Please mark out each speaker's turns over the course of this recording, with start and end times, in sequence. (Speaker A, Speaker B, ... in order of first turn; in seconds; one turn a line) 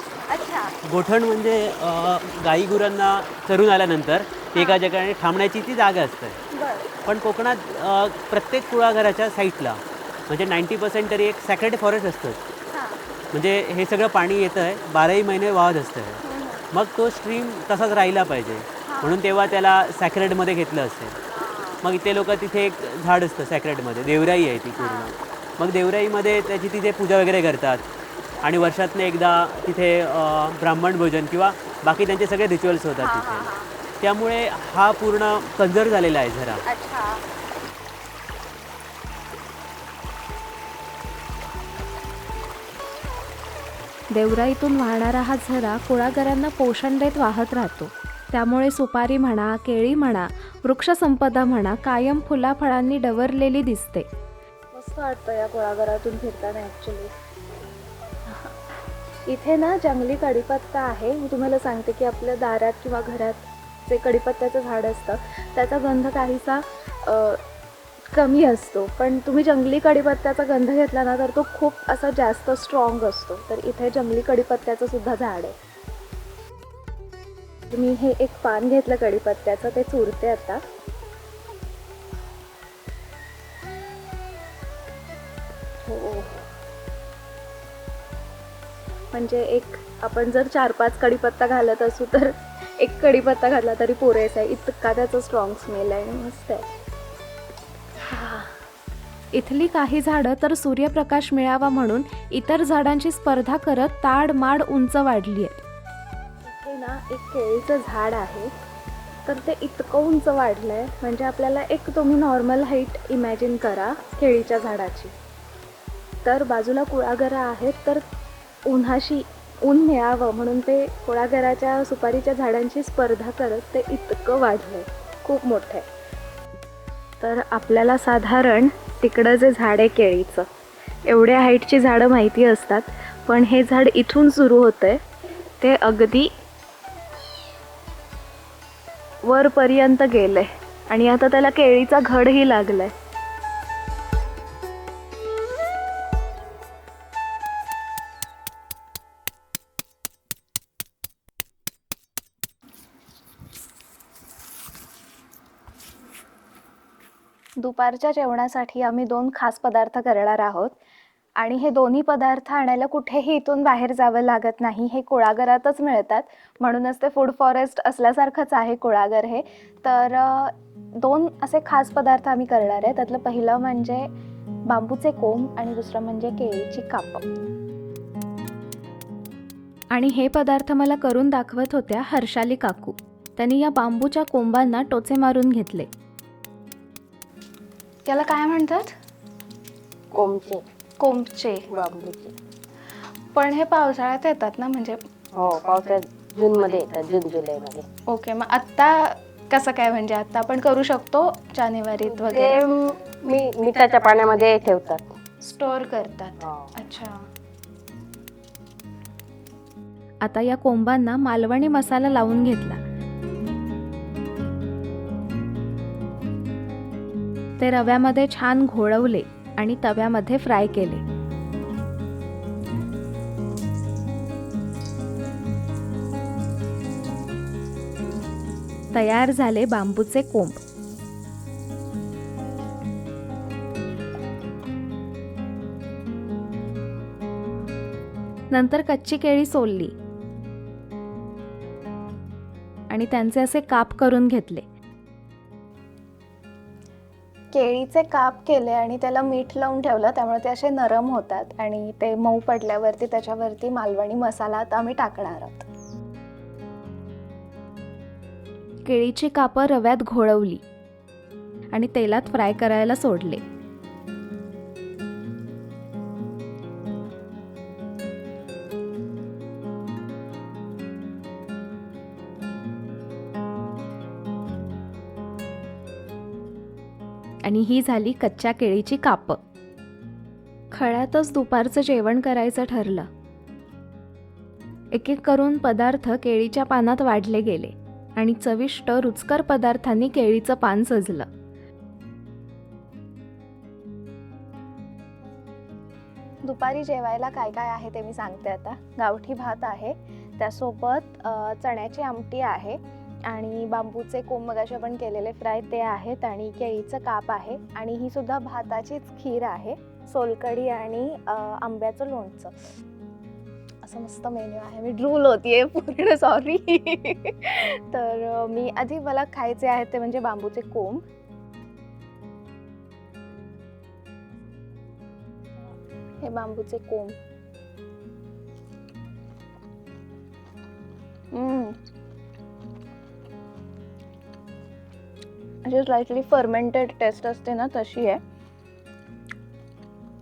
Speaker A: 0.3-0.7
Speaker B: 0.8-6.4
Speaker A: 6.5-6.9
Speaker B: 7.0-12.4
Speaker A: 12.7-13.0
Speaker B: 13.3-21.1
Speaker A: 16.2-16.6
Speaker A: 18.9-19.2
Speaker A: 21.3-21.8
Speaker B: 21.8-27.8
Speaker A: 24.8-25.1
Speaker A: 28.4-28.7
Speaker B: 28.4-36.6
Speaker A: 33.0-33.7
Speaker A: 36.6-37.2
Speaker A: 44.1-54.1
Speaker A: 54.7-57.1
Speaker A: 59.3-67.4
Speaker A: 68.1-75.5
Speaker A: 77.7-80.6
Speaker A: 85.8-86.5
Speaker A: 89.1-96.7
Speaker A: 98.1-98.5
Speaker A: 99.3-105.6
Speaker A: 106.5-108.5
Speaker A: 109.2-115.1
Speaker A: 116.2-118.0
Speaker A: 118.6-125.9
Speaker A: 127.2-130.5
Speaker A: 131.0-135.0
Speaker A: 135.6-136.3
Speaker A: 139.2-142.9
Speaker A: 157.6-160.8
Speaker A: 161.4-174.1
Speaker A: 174.7-177.2
Speaker A: 179.9-185.9
Speaker A: 188.1-188.9
Speaker C: 190.1-190.6
Speaker A: 191.0-191.7
Speaker C: 191.7-192.3
Speaker A: 193.3-195.0
Speaker C: 195.4-197.8
Speaker A: 198.1-202.6
Speaker C: 202.1-205.1
Speaker A: 205.4-207.2
Speaker C: 206.4-206.7
Speaker A: 210.2-212.8
Speaker A: 217.6-221.0
Speaker A: 228.9-230.6
Speaker A: 238.5-239.9
Speaker A: 242.9-244.6
Speaker A: 247.5-255.6
Speaker A: 258.9-260.6
Speaker A: 261.7-263.4
Speaker A: 277.4-279.4
Speaker A: 280.7-283.1
Speaker A: 284.9-291.3
Speaker A: 296.4-312.8
Speaker A: 313.8-321.0
Speaker A: 326.2-327.2
Speaker A: 331.3-331.8
Speaker A: 335.6-338.2